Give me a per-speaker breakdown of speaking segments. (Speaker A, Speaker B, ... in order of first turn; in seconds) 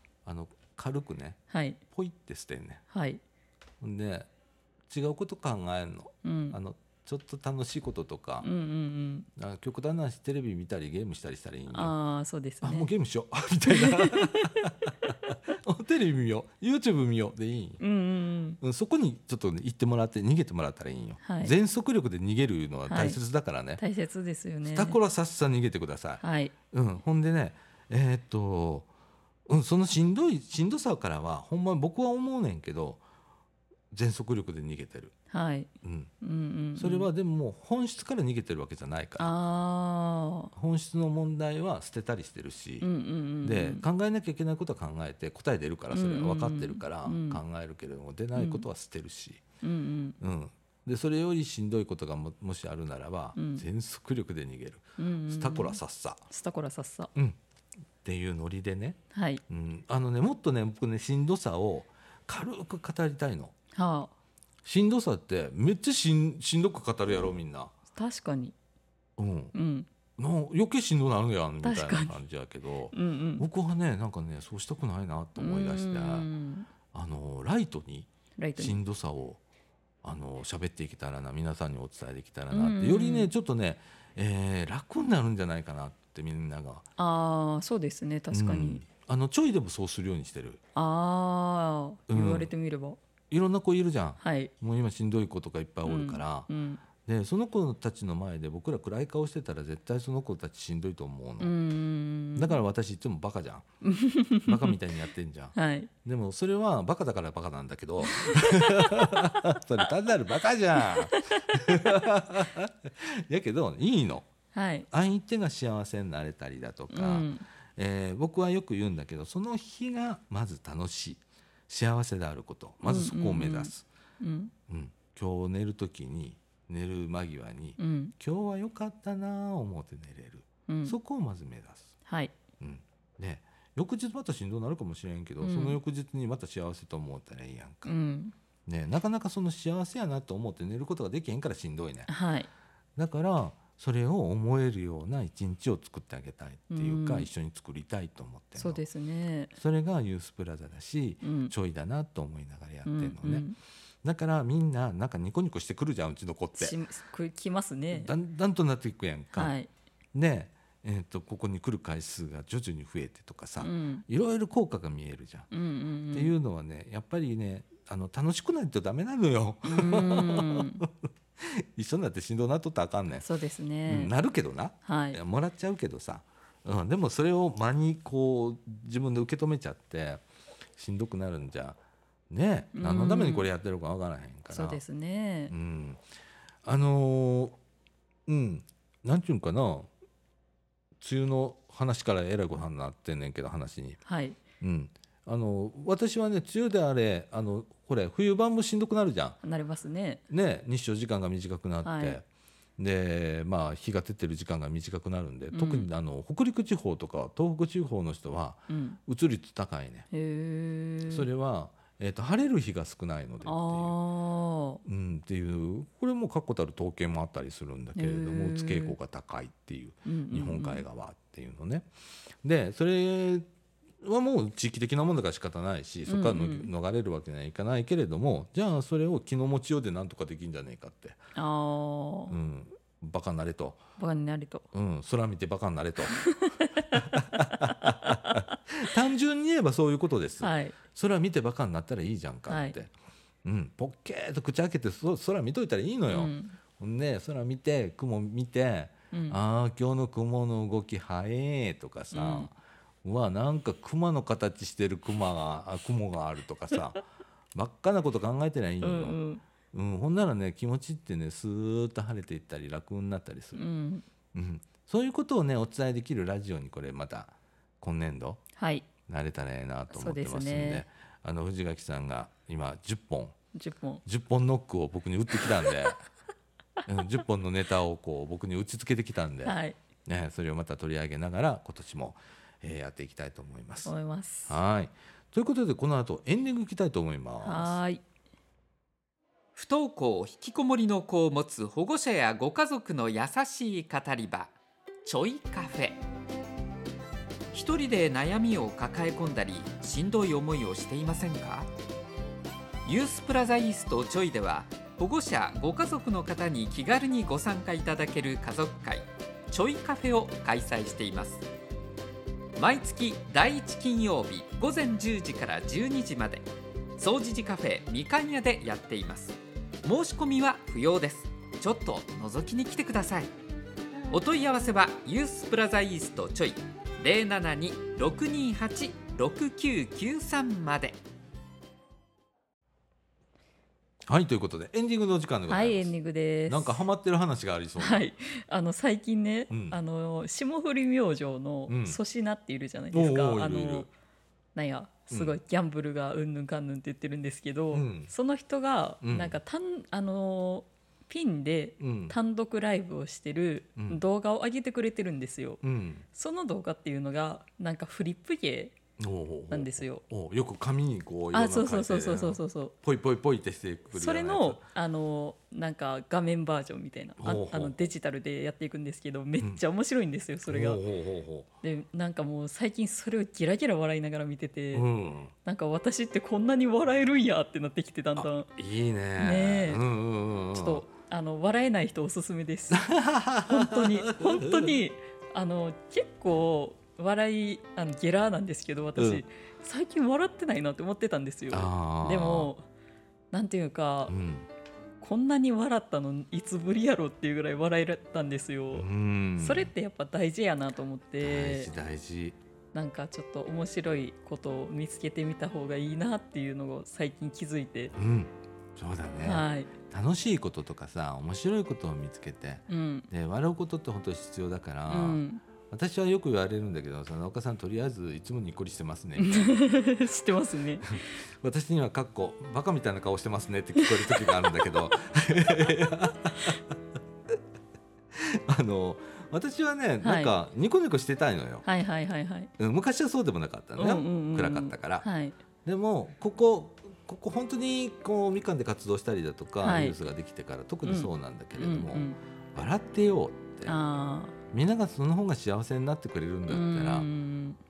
Speaker A: 0.2-2.8, 3.8-4.3, 4.9-8.5, 9.4-11.9, 12.6-17.8, 18.6-23.8, 24.6-28.9, 29.5-33.0, 33.9-35.1, 35.8-36.1, 36.8-39.3, 40.5-42.9, 43.4-49.4, 50.2-56.2, 58.0-63.5, 64.6-67.7, 69.2-69.5, 70.2-76.3, 76.9-79.4, 80.0-86.9, 88.3-90.6, 92.1-92.5, 93.3-101.5, 102.4-103.7, 104.5-114.3, 114.9-123.8, 124.7-131.9, 132.6-137.9, 138.7-142.1, 143.0-148.8, 149.6-153.5, 154.0-156.8, 157.9-159.5, 160.1-165.5, 166.1-173.3, 173.9-180.2, 180.8-181.8, 182.3-184.8, 185.5-186.0, 186.7-187.6, 188.3-189.9, 191.0-194.0, 194.6-199.4, 200.3-202.2, 202.8-210.1, 211.1-214.0, 214.8-221.9, 222.4-223.5, 224.0-231.2, 232.3-233.8, 234.7-236.2, 236.9-242.9, 243.4-257.0, 257.5-259.2, 259.7-263.6, 264.3-268.4, 269.1-273.4, 274.1-276.0, 276.9-283.9, 284.5-287.8, 334.1-335.9, 336.5-338.1, 339.5-339.8, 341.7-342.0, 342.9-343.9, 345.1-345.4, 347.7-348.1, 349.0-349.4, 351.8-352.2, 353.8-354.0, 355.6-356.1, 359.0-364.7, 367.2-367.7, 370.5-371.5, 374.7-375.3, 378.2-380.8, 382.7-384.8, 389.0-389.2, 391.5-392.5, 394.1-394.5, 398.7-399.7, 401.2-402.4, 407.9-419.6, 420.9-426.8, 428.1-431.7, 432.6-435.1, 435.6-443.8, 444.5-447.1
Speaker B: 1.5-1.8, 2.9-3.2, 6.2-6.6, 8.4-9.3, 11.7-12.9, 13.7-14.7, 17.8-18.6, 21.2-21.5, 22.9-23.2, 23.8-25.0, 26.2-26.5, 35.3-35.7, 36.2-37.1, 39.2-40.5, 42.8-43.9, 45.9-47.4, 48.4-48.7, 49.6-50.2, 53.4-53.6, 55.0-55.8, 56.3-57.1, 59.1-59.4, 63.8-64.1, 67.9-68.5, 69.5-69.9, 71.6-72.2, 72.9-73.5, 75.4-76.7, 78.4-78.8, 82.5-83.3, 87.0-88.8, 90.8-93.0, 94.2-94.5, 95.8-96.8, 101.4-102.6, 103.8-104.8, 105.5-105.9, 110.8-111.4, 114.5-114.9, 116.9-117.5, 122.8-124.5, 127.8-128.1, 130.7-131.0, 132.1-132.3, 135.4-135.8, 137.8-138.3, 142.1-142.5, 146.7-147.3, 148.6-149.5, 151.2-151.5, 152.8-153.6, 156.6-158.1, 159.3-159.7, 163.6-164.1, 165.5-166.3, 169.6-170.8, 173.2-174.1, 174.8-175.2, 182.8-183.5, 184.5-185.5, 194.1-194.4, 199.4-200.2, 201.8-202.2, 205.5-205.9, 208.7-209.0, 210.1-211.3, 213.4-214.8, 218.0-219.0, 220.1-220.8, 226.1-226.7, 231.3-232.4, 234.0-234.7, 236.1-238.6, 240.4-240.8, 242.5-242.8, 246.1-246.6, 249.1-249.4, 252.1-252.5, 258.8-259.4, 263.6-264.1, 268.6-268.9, 269.9-270.9, 273.5-274.0, 279.4-279.8, 283.9-284.6, 287.4-288.0, 335.5-336.9, 337.8-343.9, 344.6-355.6, 356.1-358.8, 359.5-360.0, 361.3-362.7, 363.9-370.8, 371.6-374.9, 375.4-378.5, 379.2-379.8, 380.5-382.9, 383.5-392.6, 393.3-394.1, 395.0-398.9, 399.4-401.7, 402.7-407.9, 409.2-409.7, 412.7-413.1, 414.9-415.4, 419.2-421.1, 423.8-424.3, 430.0-430.3, 431.6-432.5, 433.8-435.4, 439.6-440.0, 440.8-442.2, 443.7-444.3, 446.5-447.6
Speaker C: 289.6-294.5, 295.1-296.0, 297.5-301.7, 302.9-311.4, 312.6-323.3, 324.1-331.0